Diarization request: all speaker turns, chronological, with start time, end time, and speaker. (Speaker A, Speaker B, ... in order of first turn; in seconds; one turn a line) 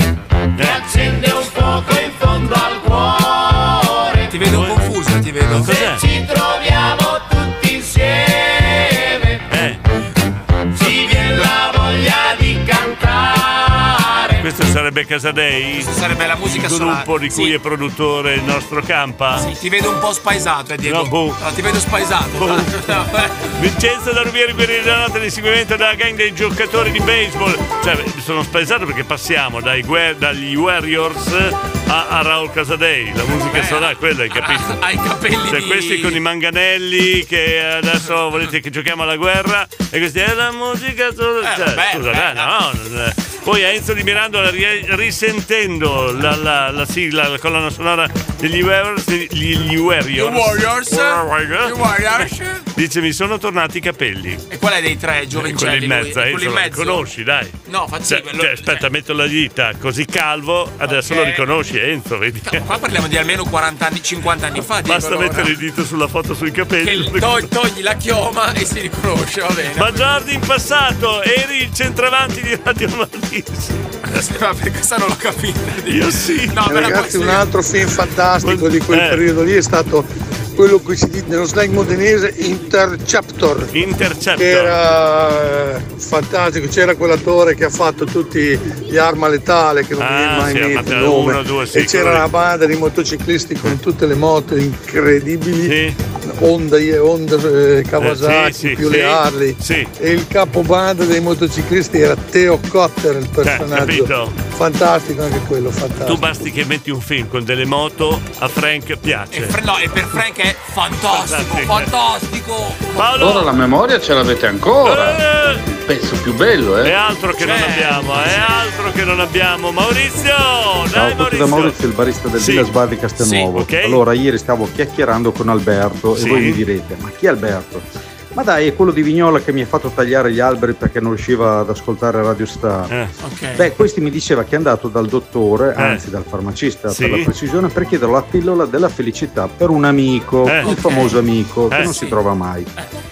Speaker A: 0.6-1.4
Speaker B: 4.3-5.9
Speaker A: 4.5-4.9
Speaker A: 5.5-6.1
Speaker A: 9.5-9.8
Speaker C: 11.1-13.9
Speaker A: 14.4-15.9
Speaker B: 15.8-17.5
Speaker A: 16.4-19.5
Speaker B: 19.3-23.5
Speaker A: 20.9-21.4
Speaker A: 22.4-22.9
Speaker A: 23.6-34.8
Speaker B: 33.5-36.2
Speaker A: 35.5-52.2
Speaker B: 41.4-42.5
Speaker B: 50.2-52.6
Speaker A: 52.7-54.4
Speaker B: 54.5-57.0
Speaker A: 55.3-57.5
Speaker B: 57.7-58.9
Speaker A: 58.1-62.6
Speaker B: 60.8-61.5
Speaker B: 62.4-65.5
Speaker A: 64.8-67.5
Speaker B: 66.8-70.0
Speaker A: 69.8-73.8
Speaker B: 74.1-77.5
Speaker A: 75.9-76.7
Speaker D: 76.7-83.7
Speaker A: 78.4-79.3
Speaker A: 83.7-84.8
Speaker D: 84.3-106.2
Speaker A: 90.0-92.3
Speaker A: 95.6-96.0
Speaker A: 98.0-99.9
Speaker A: 103.4-104.3
Speaker A: 106.0-109.5
Speaker B: 109.3-113.2
Speaker A: 111.1-111.9
Speaker A: 113.0-113.5
Speaker E: 113.2-115.2
Speaker A: 114.8-115.6
Speaker E: 115.8-116.9
Speaker A: 116.8-121.8
Speaker B: 117.4-118.5
Speaker F: 120.9-132.9
Speaker A: 122.4-122.7
Speaker B: 123.2-123.5
Speaker A: 123.4-124.0
Speaker A: 126.2-126.6
Speaker B: 133.2-133.7
Speaker F: 133.6-142.7
Speaker A: 135.8-136.0
Speaker A: 136.9-137.3
Speaker A: 140.4-141.0
Speaker B: 140.6-141.2
Speaker A: 141.7-142.0
Speaker B: 141.8-142.2